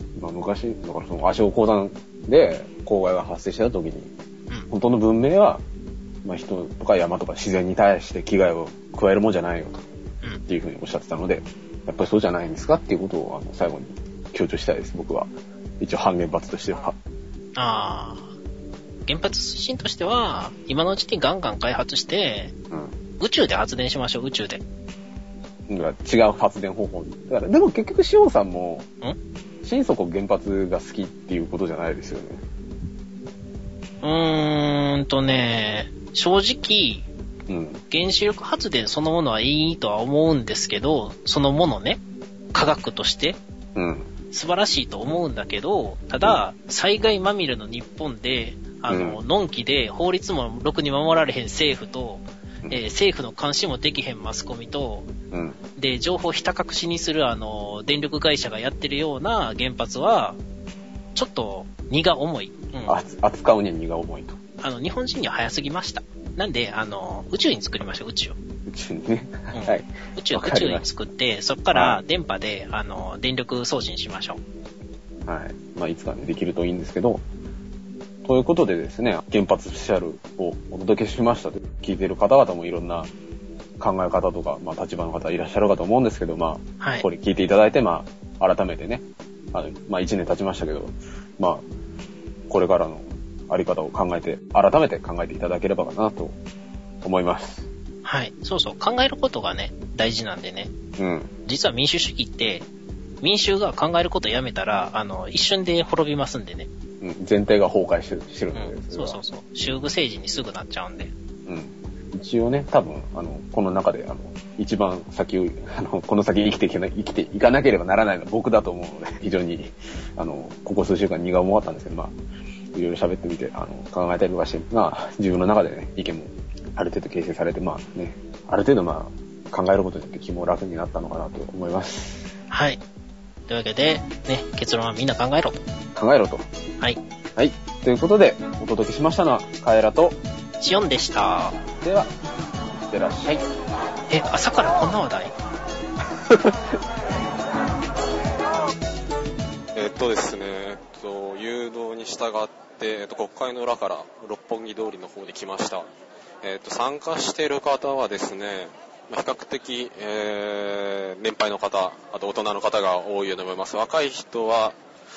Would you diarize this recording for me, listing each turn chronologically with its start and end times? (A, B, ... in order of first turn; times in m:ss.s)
0:00.1-0:04.1 A
0:04.7-0:05.6 A
0:06.2-0:09.8 A
0:10.5-0:16.9 A
0:17.6-0:18.3 B
0:19.0-0:22.5 B
0:23.2-0:24.6 B
0:25.7-0:28.9 A
0:29.6-0:32.4 A
0:34.0-0:37.1 B
0:37.5-0:37.8 A
0:37.9-0:42.0 B
0:42.5-0:43.4 B
0:43.7-0:44.1 A
0:44.3-0:55.1 B
0:48.9-0:49.2 A
0:55.3-0:55.6 A
0:55.8-1:00.4 B
1:01.1-1:03.0 B
1:02.8-1:04.4 A
1:04.6-1:08.4 B
1:08.7-1:10.9 A
1:09.5-1:14.4 B
1:11.7-1:12.0 A
1:15.2-1:17.2 A
1:18.2-1:23.1 A
1:23.8-1:31.6 A
1:26.8-1:27.0 B
1:32.5-1:36.3 A
1:37.0-1:37.7 A
1:38.0-1:40.7 B
1:41.0-1:41.3 A
1:41.4-1:42.7 B
1:43.2-1:46.7 B
1:47.0-1:49.2 A
1:48.5-1:51.1 B
1:51.4-2:02.1 A
2:02.7-2:12.3 A
2:12.5-2:12.8 B
2:13.5-2:15.6 B
2:15.9-2:16.5 A
2:17.3-2:20.2 A
2:20.6-2:21.6 B
2:21.8-2:22.1 A
2:22.8-2:23.5 A
2:24.1-2:25.3 B
2:26.3-2:26.7 A
2:29.7-2:35.9 C
2:36.4-2:44.8 C